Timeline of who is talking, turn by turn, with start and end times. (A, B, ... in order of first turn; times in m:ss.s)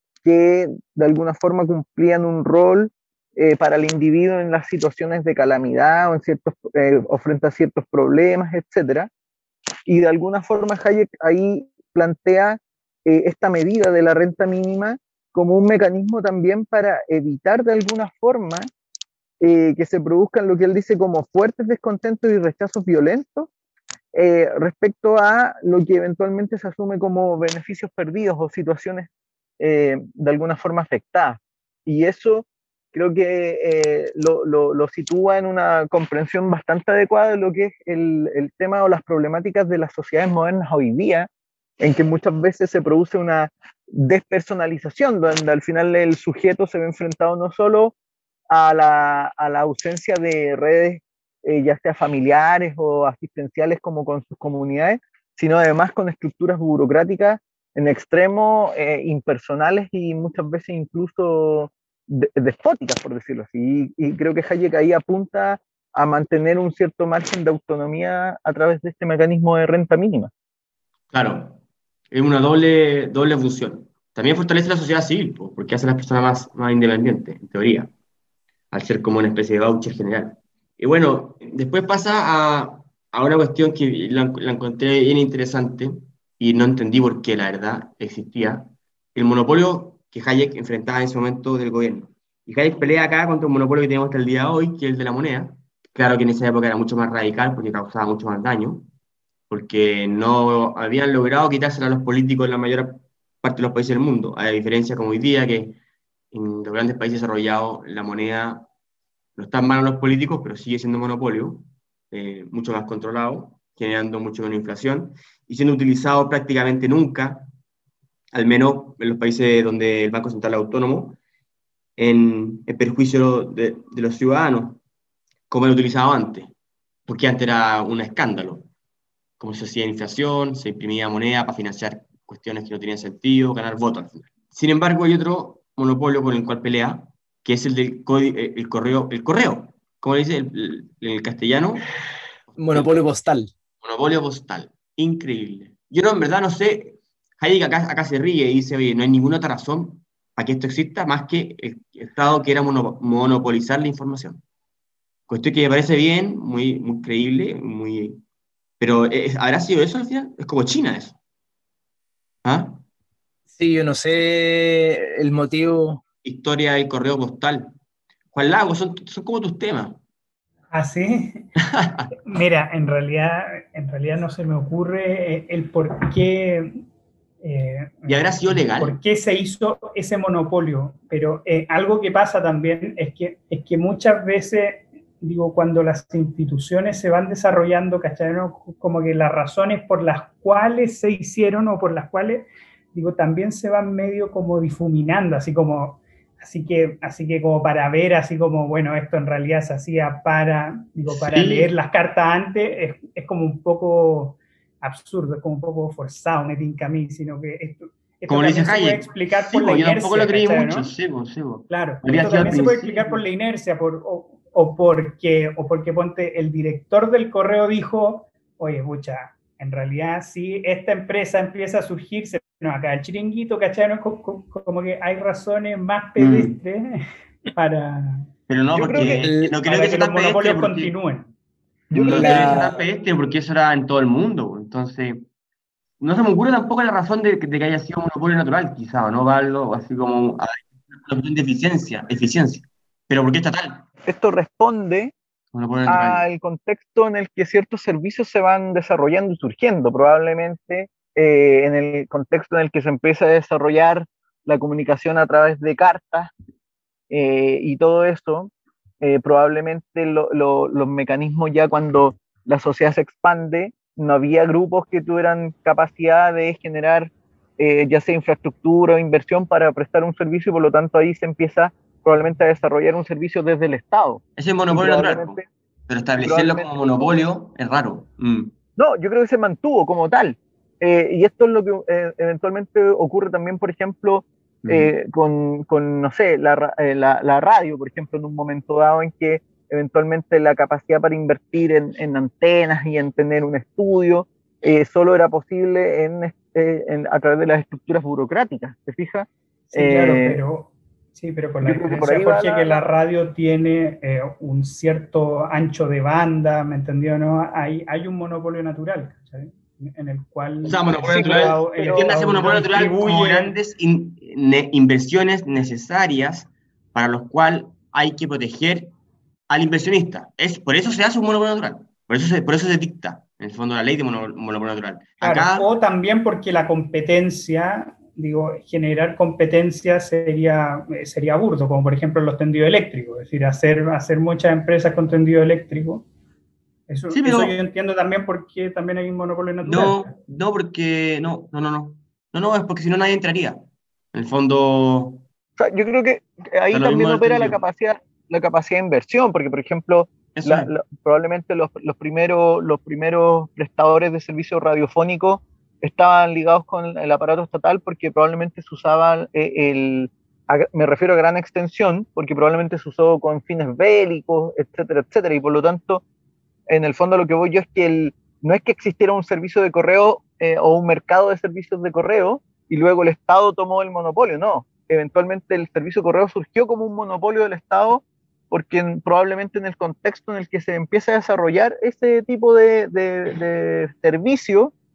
0:00.2-0:09.1 A
0:09.9-0:18.7 A
0:19.4-0:23.5 A
0:24.1-0:41.3 A
0:41.8-0:47.9 A
0:48.5-1:10.3 A
1:11.1-1:11.6 B
1:12.1-1:17.9 B
1:18.7-1:38.9 B
1:39.5-1:45.8 B
1:46.3-1:48.6 B
1:49.4-1:57.5 B
1:58.3-2:01.2 B
2:02.0-2:04.8 B
2:05.5-2:06.5 B
2:07.1-2:08.7 B
2:09.4-2:21.9 B
2:22.6-2:23.5 C
2:23.8-2:34.4 B
2:35.3-2:38.2 B
2:38.8-2:41.2 B
2:42.4-2:42.8 B
2:43.5-2:46.0 C
2:46.2-2:47.7 B
2:48.3-2:50.0 B
2:50.7-2:51.5 D
2:51.6-2:52.1 B
2:52.2-2:56.8 D
2:57.4-3:30.9 D
2:58.1-2:59.0 B
3:21.1-3:21.7 B
3:28.3-3:33.2 B
3:31.7-3:51.3 D
3:46.2-3:46.6 B
3:48.5-3:50.9 B
3:48.8-3:49.0 A
3:49.2-3:49.5 C
3:51.9-3:52.7 A
3:51.9-3:55.2 B
3:52.0-3:52.8 C
3:56.0-4:03.8 B
4:04.0-4:05.1 A
4:05.5-4:06.2 B
4:05.9-4:16.3 A
4:17.1-4:35.4 A
4:34.4-4:38.5 B
4:36.2-4:37.1 A
4:38.8-5:00.4 A
4:44.6-4:44.9 B
4:59.7-5:13.6 D
5:01.6-5:02.8 A
5:10.6-5:18.9 B
5:11.1-5:12.1 A
5:19.5-5:25.7 B
5:25.2-5:36.0 D
5:36.9-5:40.1 D
5:37.1-5:37.6 B
5:39.6-5:45.2 B
5:45.6-6:06.0 A
5:46.7-5:47.6 B
5:50.3-5:50.7 B
6:06.7-6:24.7 A